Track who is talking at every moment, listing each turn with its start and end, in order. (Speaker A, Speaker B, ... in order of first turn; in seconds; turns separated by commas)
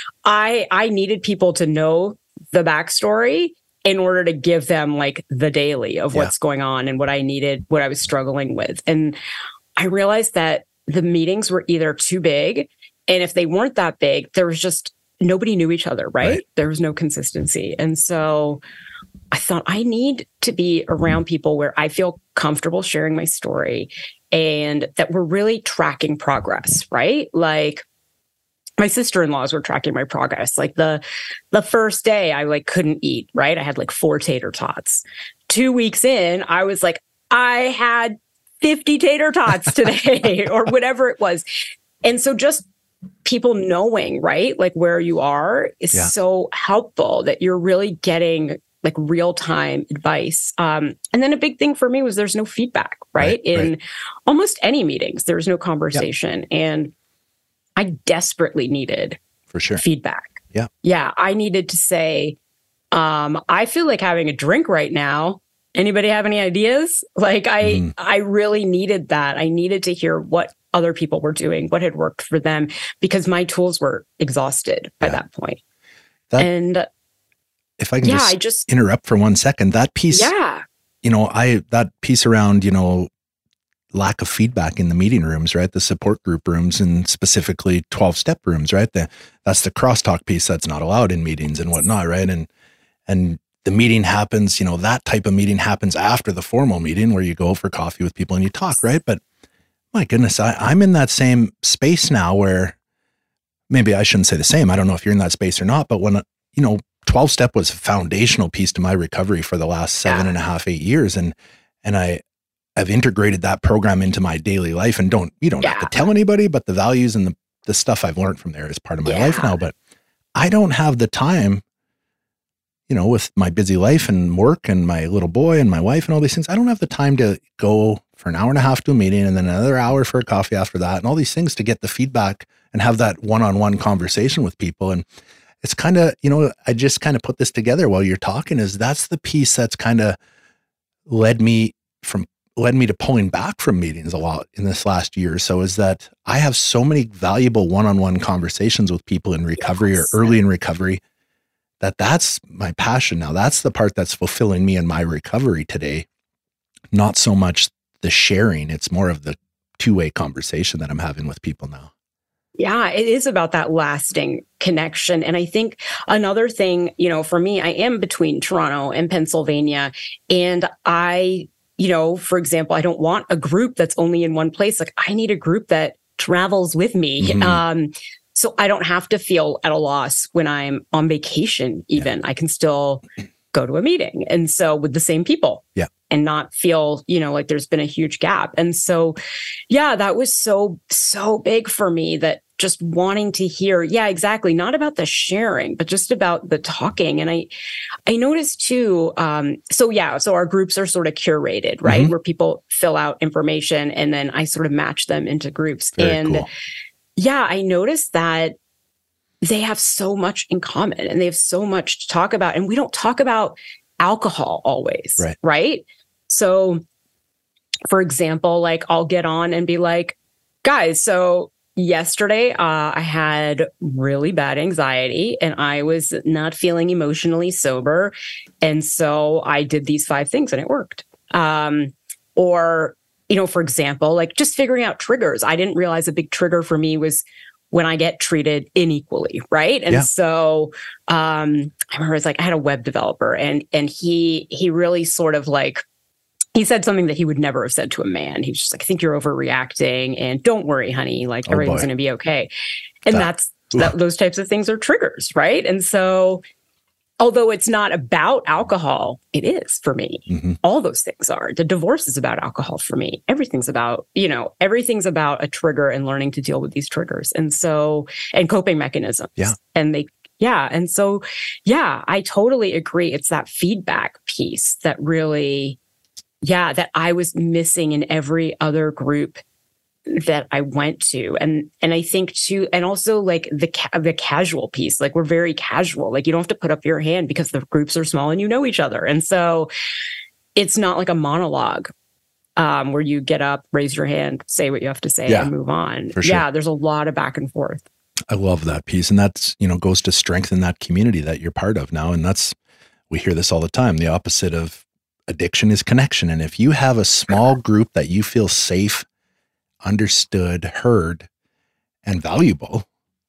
Speaker A: 0.2-9.2, Speaker A: 9.8-18.6, Speaker A: 19.3-27.9, Speaker A: 28.8-41.5, Speaker A: 42.0-42.7, Speaker A: 43.2-56.9, Speaker B: 53.2-53.7, Speaker A: 57.8-59.2, Speaker B: 59.5-59.8, Speaker A: 59.8-62.4, Speaker A: 62.9-75.6, Speaker B: 67.6-67.9, Speaker A: 76.4-76.9, Speaker B: 77.8-80.3, Speaker A: 78.0-78.7, Speaker A: 80.1-80.6, Speaker B: 81.0-83.1, Speaker B: 83.9-92.5, Speaker B: 93.1-99.2, Speaker B: 99.9-102.8, Speaker B: 103.7-112.2, Speaker B: 112.8-119.8, Speaker A: 115.6-116.0, Speaker A: 119.0-119.6, Speaker B: 120.4-121.6, Speaker B: 122.9-135.1, Speaker B: 135.6-140.2, Speaker B: 141.1-151.0, Speaker A: 149.6-150.4, Speaker B: 151.8-156.1, Speaker B: 156.9-161.9, Speaker A: 162.6-189.2, Speaker B: 177.2-177.6, Speaker A: 189.7-197.5, Speaker A: 198.1-206.5, Speaker B: 201.8-202.1, Speaker B: 206.0-206.5, Speaker A: 207.2-208.6, Speaker A: 209.4-216.8, Speaker A: 217.9-245.8, Speaker A: 246.6-252.5, Speaker B: 251.5-251.9, Speaker A: 253.1-256.4, Speaker B: 253.1-253.9, Speaker A: 257.2-275.8, Speaker B: 260.3-260.6, Speaker A: 276.4-279.4, Speaker A: 280.1-289.7, Speaker A: 290.6-291.9, Speaker A: 292.6-297.9, Speaker B: 296.2-296.4, Speaker B: 298.3-302.6, Speaker B: 303.1-309.1, Speaker B: 309.8-311.3, Speaker B: 312.0-312.9